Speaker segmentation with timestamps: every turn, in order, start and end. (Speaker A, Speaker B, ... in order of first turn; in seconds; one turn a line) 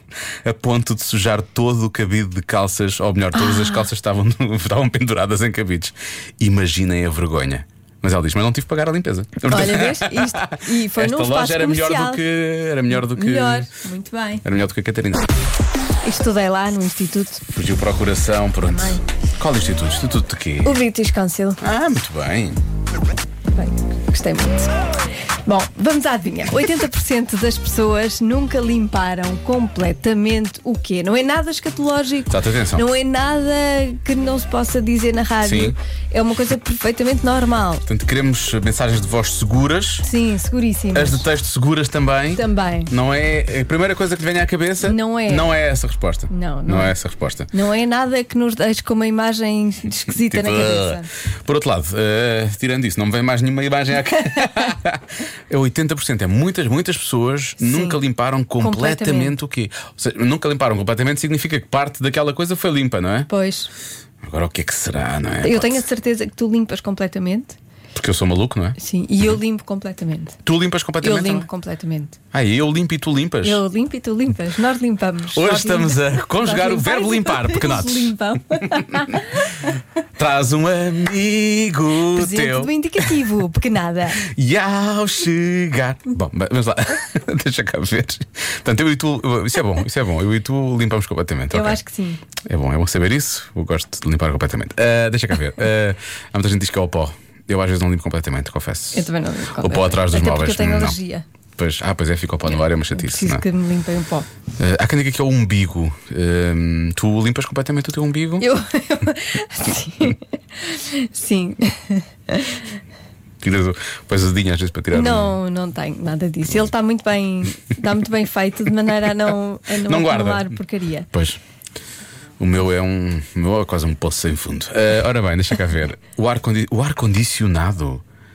Speaker A: 0.4-13.7
Speaker B: 3.3-3.9
Speaker B: 9.5-12.2
Speaker B: 12.9-14.4
Speaker A: 14.4-15.3
Speaker B: 16.0-17.4
Speaker A: 17.5-20.8
Speaker B: 18.6-19.0
Speaker B: 20.6-21.6
Speaker A: 21.6-22.6
Speaker B: 23.5-24.7
Speaker B: 25.4-37.8
Speaker A: 32.3-32.9
Speaker A: 35.4-35.8
Speaker A: 37.9-40.0
Speaker B: 40.0-41.2
Speaker A: 40.9-47.5
Speaker B: 42.3-42.9
Speaker B: 44.8-45.5
Speaker B: 46.3-46.9
Speaker B: 47.5-51.1
Speaker A: 50.2-63.3
Speaker B: 57.6-58.0
Speaker B: 58.6-59.3
Speaker B: 63.3-63.7
Speaker A: 64.2-65.8
Speaker B: 65.4-67.5
Speaker A: 67.9-68.8
Speaker B: 68.8-70.4
Speaker A: 70.4-71.5
Speaker B: 71.0-72.2
Speaker A: 72.3-73.6
Speaker B: 73.4-79.6
Speaker A: 75.3-79.2
Speaker A: 80.2-83.1
Speaker B: 82.1-84.2
Speaker A: 84.2-91.8
Speaker B: 91.5-92.2
Speaker A: 92.5-101.0
Speaker B: 98.9-101.2
Speaker A: 101.6-103.4
Speaker B: 102.9-104.3
Speaker A: 104.6-108.5
Speaker B: 108.4-112.7
Speaker A: 113.4-115.3
Speaker B: 114.9-121.1
Speaker A: 119.8-120.6
Speaker A: 121.1-121.4
Speaker A: 122.4-128.0